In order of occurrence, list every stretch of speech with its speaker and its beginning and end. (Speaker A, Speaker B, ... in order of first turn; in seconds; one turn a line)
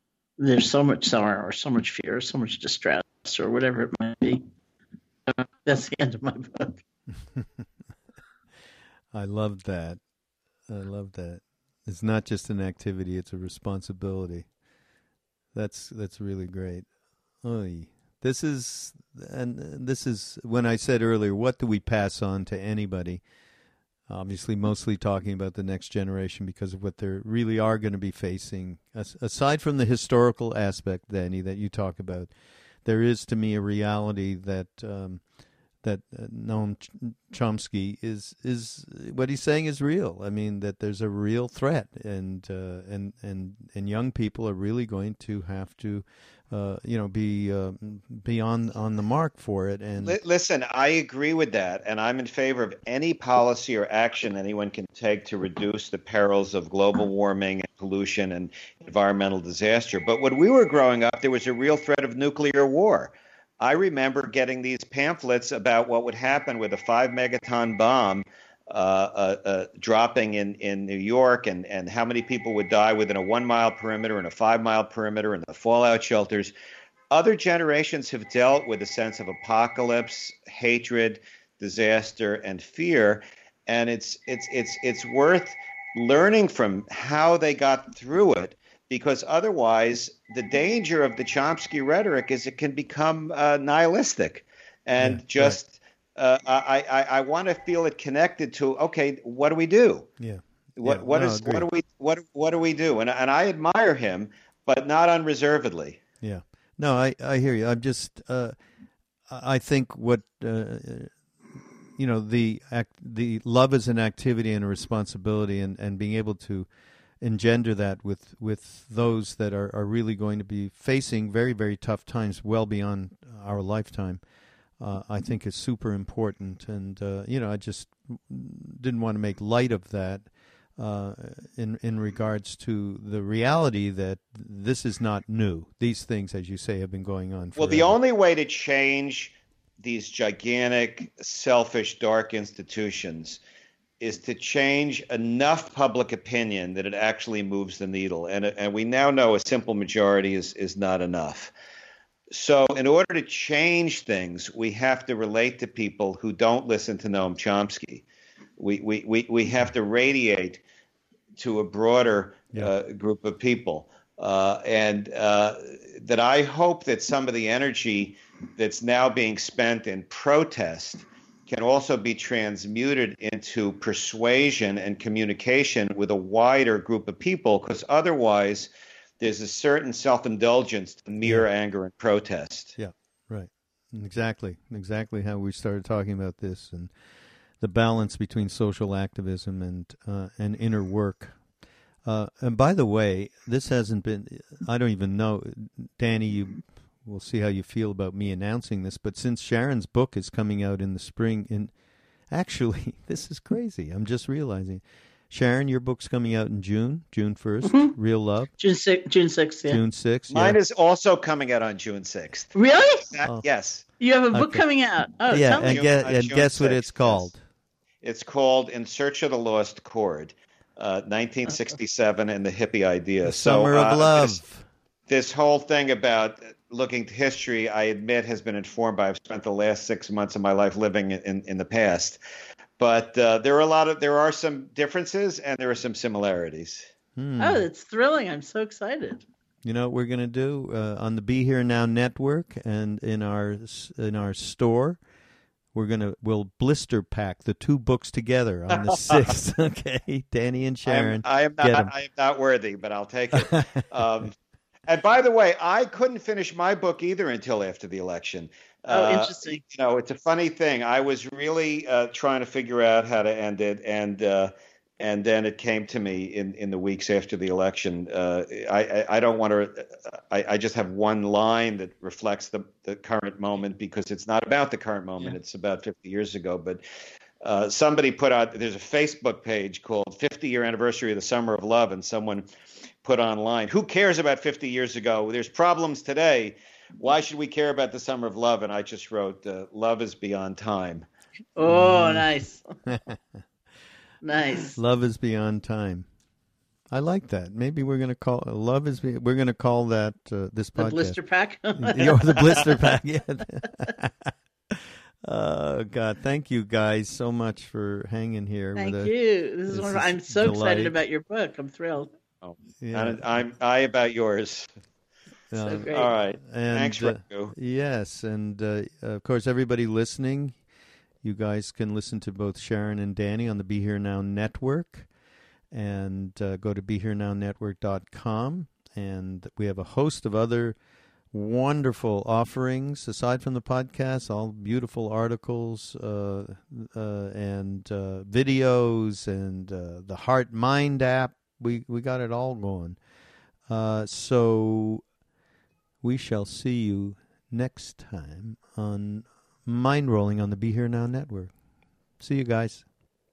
Speaker A: 0.4-4.4
Speaker A: 5.3-6.8
Speaker B: 7.3-7.7
Speaker B: 9.1-10.0
Speaker B: 10.7-14.5
Speaker B: 15.5-16.9
Speaker B: 17.4-23.2
Speaker B: 24.1-32.3
Speaker B: 32.8-35.2
Speaker B: 35.8-50.2
Speaker C: 50.0-76.5
Speaker C: 77.1-100.1
Speaker B: 95.0-95.6
Speaker B: 100.2-101.7
Speaker C: 100.8-106.0
Speaker B: 106.2-108.5
Speaker B: 109.3-111.1
Speaker B: 112.0-116.7
Speaker B: 117.2-124.2
Speaker B: 124.8-137.9
Speaker C: 137.6-143.4
Speaker C: 144.0-151.5
Speaker C: 152.3-158.0
Speaker C: 158.6-160.6
Speaker C: 161.3-182.8
Speaker B: 182.8-186.9
Speaker B: 187.6-191.4
Speaker B: 192.0-201.7
Speaker B: 202.3-208.5
Speaker A: 207.6-207.9
Speaker A: 208.6-209.8
Speaker B: 209.7-210.6
Speaker C: 210.3-213.8
Speaker A: 212.5-213.1
Speaker A: 214.0-215.8
Speaker B: 214.3-214.6
Speaker B: 215.3-217.4
Speaker C: 215.6-217.3
Speaker C: 218.0-224.4
Speaker B: 223.2-224.6
Speaker C: 225.1-232.2
Speaker C: 232.8-236.9
Speaker B: 237.2-237.6
Speaker A: 237.4-239.2
Speaker B: 239.6-245.0
Speaker B: 245.7-251.9
Speaker C: 248.7-249.3
Speaker C: 250.8-254.3
Speaker B: 253.3-253.8
Speaker C: 254.9-276.8
Speaker A: 258.9-259.6
Speaker C: 277.4-282.5
Speaker C: 283.0-291.1
Speaker A: 291.6-292.7
Speaker B: 291.7-292.2
Speaker B: 292.9-293.4
Speaker A: 294.2-294.8
Speaker B: 294.8-296.1
Speaker B: 296.9-301.2
Speaker A: 300.8-302.9
Speaker B: 301.8-309.1
Speaker A: 308.8-312.1
Speaker B: 309.7-310.9
Speaker C: 312.4-314.7
Speaker B: 312.8-313.2
Speaker B: 315.5-320.6
Speaker A: 315.6-316.1
Speaker C: 315.9-317.5
Speaker B: 321.2-325.1
Speaker B: 325.7-330.8
Speaker B: 331.3-343.0
Speaker B: 343.7-345.0
Speaker B: 346.0-351.5
Speaker B: 352.2-352.9